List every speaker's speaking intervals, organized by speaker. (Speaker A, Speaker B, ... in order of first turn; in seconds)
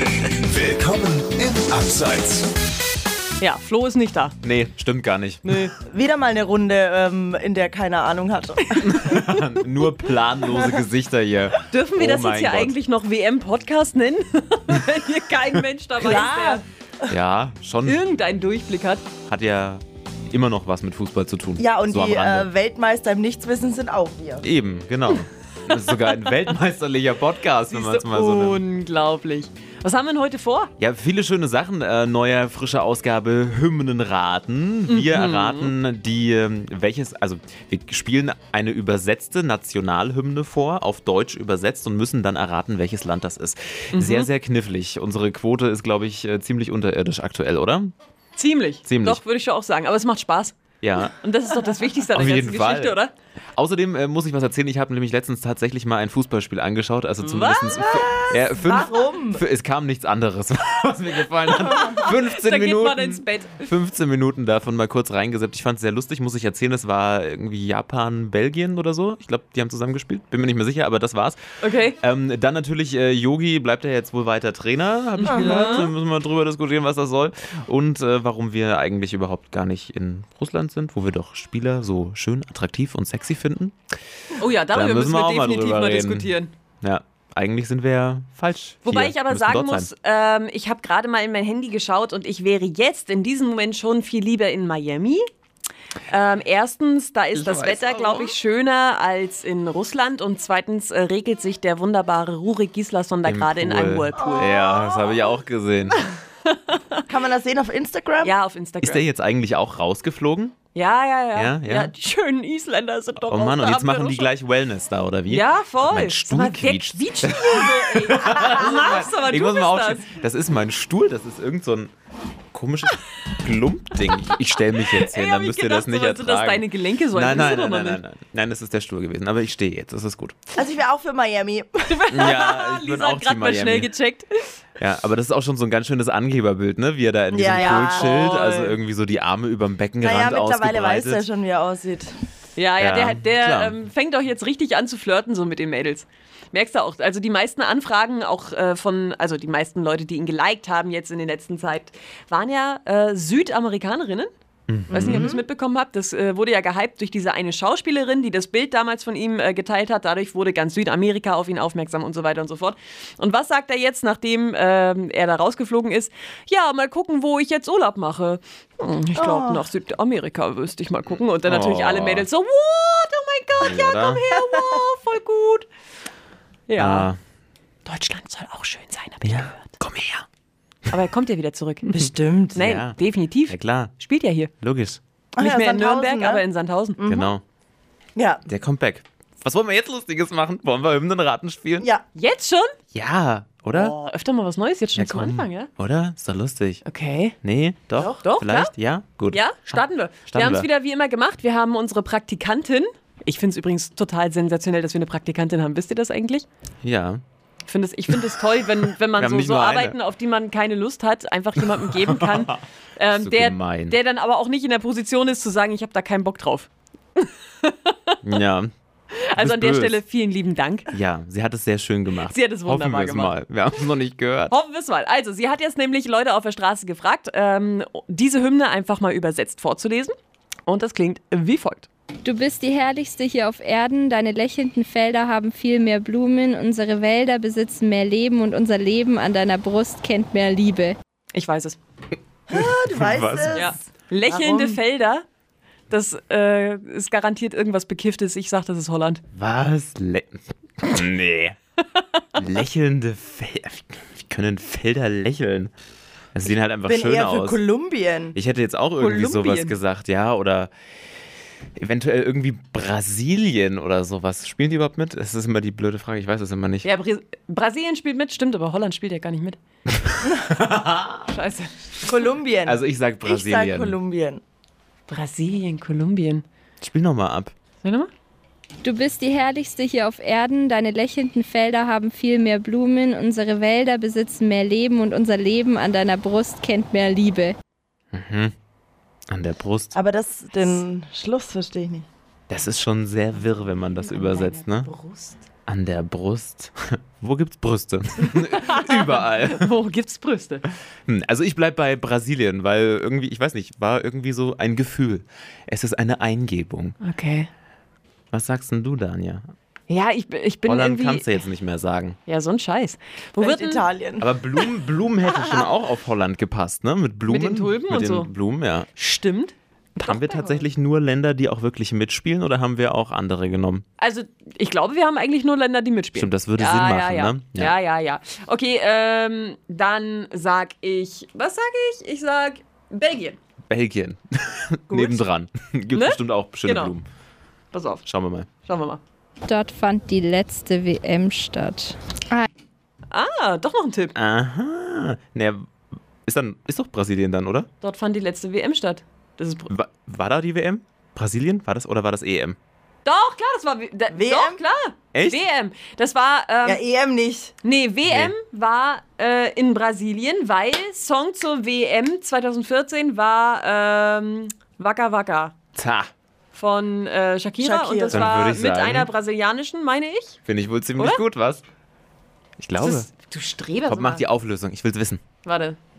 Speaker A: 0.4-2.5
Speaker B: 3.4-4.4, 5.5-5.7, 8.8-9.4, 11.7-16.6, 17.9-19.0, 27.7-30.7, 34.9-35.7, 43.9-44.3, 48.4-50.6, 51.1-53.1, 57.2-58.4, 61.7-63.7, 71.6-72.0, 75.2-75.9, 84.4-86.5, 88.8-95.3, 96.1-104.6, 106.0-107.0, 108.2-109.0, 110.8-114.3, 115.3-120.1, 124.1-128.0, 131.9-134.6, 137.6-138.8, 142.6-154.3, 154.9-175.7, 176.7-177.1, 177.8-179.7, 180.9-182.0, 182.6-184.5, 185.4-187.0, 192.2-192.7, 193.7-195.7, 196.8-197.4, 198.2-198.7, 199.3-206.5, 207.7-218.2, 219.1-220.9, 222.3-223.3, 224.5-231.9, 241.3-241.8, 243.5-245.2, 245.9-249.2, 259.0-259.8, 266.8-269.6, 271.3-272.1, 275.1-276.4, 277.8-278.1, 294.0-295.4, 298.3-300.6, 307.0-307.5, 309.9-311.4, 312.3-313.9, 315.3-315.6, 317.3-318.3, 319.0-320.6, 324.0-333.4, 335.9-336.9, 337.7-338.1, 338.6-339.0, 343.1-344.1, 347.8-349.7, 353.1-356.8, 357.6-365.5, 366.5-370.4, 372.8-374.2, 375.4-375.8
Speaker C: 4.4-5.6, 8.8-12.7, 17.1-18.0, 19.3-22.5, 24.4-28.6, 30.8-47.9, 48.9-49.2, 50.8-51.1, 52.1-53.0, 53.6-71.4, 72.0-83.8, 84.7-89.9, 97.3-98.3, 103.2-106.1, 108.8-110.6, 111.3-111.9, 113.3-121.9, 122.5-130.4, 132.1-133.9, 134.8-141.2, 142.8-143.8, 154.7-155.3, 171.4-172.3, 173.6-174.2, 176.8-177.2, 179.2-180.3, 182.6-183.0, 183.5-183.9, 184.6-185.0, 187.1-187.4, 188.5-191.9, 192.9-193.9, 195.0-196.8, 197.4-200.7, 206.8-207.2, 209.2-209.9, 211.8-212.6, 213.2-214.0, 218.2-218.7, 219.4-220.0, 220.9-224.5, 242.5-243.7, 249.3-251.6, 252.4-255.7, 256.3-257.6, 258.3-260.7, 261.8-266.9, 270.0-271.2, 272.6-274.0, 276.8-277.5, 288.1-288.5, 289.3-290.0, 292.5-294.9, 295.7-299.7, 301.1-307.0, 308.3-309.4, 310.7-312.2, 314.2-318.9, 320.1-323.9, 326.2-327.7, 333.7-337.1, 338.1-338.5, 344.2-345.7, 346.3-347.7, 349.7-352.6, 355.1-355.4, 358.1-358.3, 365.8-366.1, 368.1-369.1, 370.5-371.6, 372.6-373.1, 373.9-375.2
Speaker D: 5.9-9.0, 16.0-17.1, 21.6-24.4, 58.3-59.4, 75.2-75.9, 104.2-105.3, 107.1-108.3, 118.2-119.0, 130.6-132.1, 137.3-138.2, 140.0-142.1, 154.9-155.4, 169.2-169.7, 181.9-182.6, 185.4-186.4, 187.0-187.3, 188.2-188.4, 198.0-198.2, 242.5-244.8, 256.9-258.4, 272.1-274.4, 289.9-292.1, 313.4-314.3, 354.1-354.6, 356.6-357.5, 367.6-368.3
Speaker E: 232.2-241.0, 278.8-287.6, 339.4-342.5